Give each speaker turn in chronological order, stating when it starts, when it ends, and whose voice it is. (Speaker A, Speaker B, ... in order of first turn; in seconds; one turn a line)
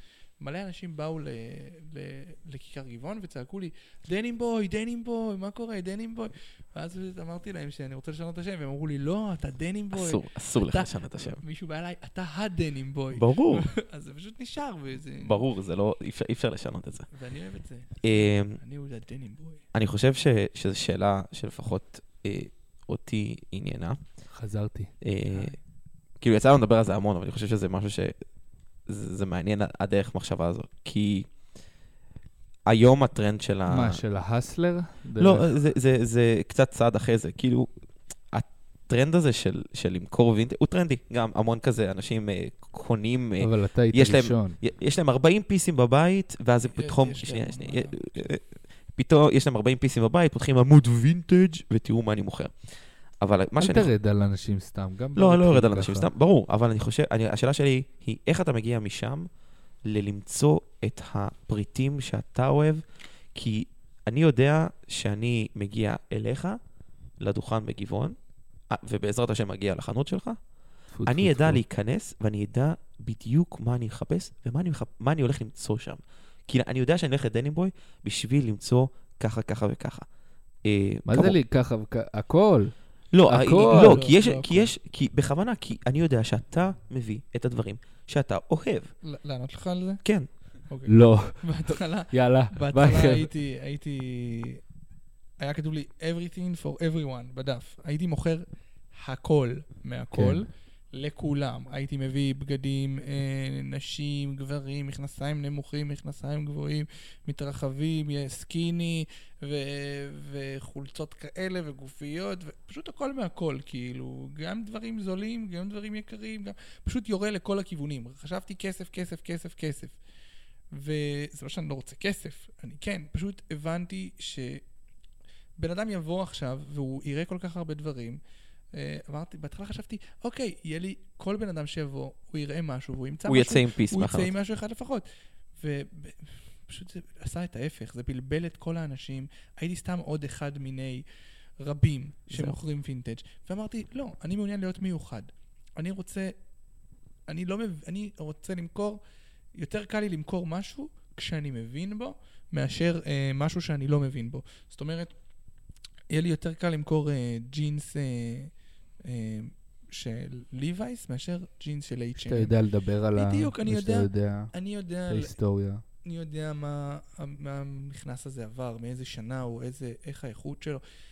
Speaker A: 0.4-15.4
Speaker B: 9.9-11.4
Speaker B: 13.1-13.7
Speaker B: 15.2-17.1
Speaker A: 17.1-19.6
Speaker B: 18.0-18.6
Speaker B: 19.7-24.0
Speaker C: 24.3-24.9
Speaker B: 25.0-25.5
Speaker A: 25.3-25.6
Speaker B: 26.2-28.1
Speaker B: 28.9-31.3
Speaker B: 32.6-34.0
Speaker C: 33.7-35.5
Speaker B: 35.2-37.7
Speaker B: 38.3-52.5
Speaker C: 43.4-44.6
Speaker A: 46.7-48.2
Speaker B: 53.2-53.9
Speaker C: 53.6-56.1
Speaker B: 55.1-59.3
Speaker B: 59.8-66.6
Speaker B: 67.2-68.2
Speaker B: 68.7-70.4
Speaker C: 70.9-71.6
Speaker B: 71.0-80.0
Speaker B: 80.6-81.4
Speaker C: 81.0-84.0
Speaker B: 83.1-88.9
Speaker A: 83.4-84.7
Speaker A: 89.0-90.0
Speaker A: 90.7-94.6
Speaker C: 90.9-93.3
Speaker A: 95.4-120.0
Speaker C: 100.1-100.4
Speaker A: 120.7-124.6
Speaker A: 125.6-128.2
Speaker A: 128.7-135.1
Speaker B: 133.3-134.3
Speaker A: 135.6-141.0
Speaker A: 141.6-146.3
Speaker B: 142.3-142.6
Speaker A: 147.3-149.0
Speaker A: 149.5-155.1
Speaker A: 156.1-158.5
Speaker A: 159.0-162.5
Speaker C: 162.2-164.5
Speaker A: 163.1-165.3
Speaker C: 165.1-165.8
Speaker A: 166.0-170.8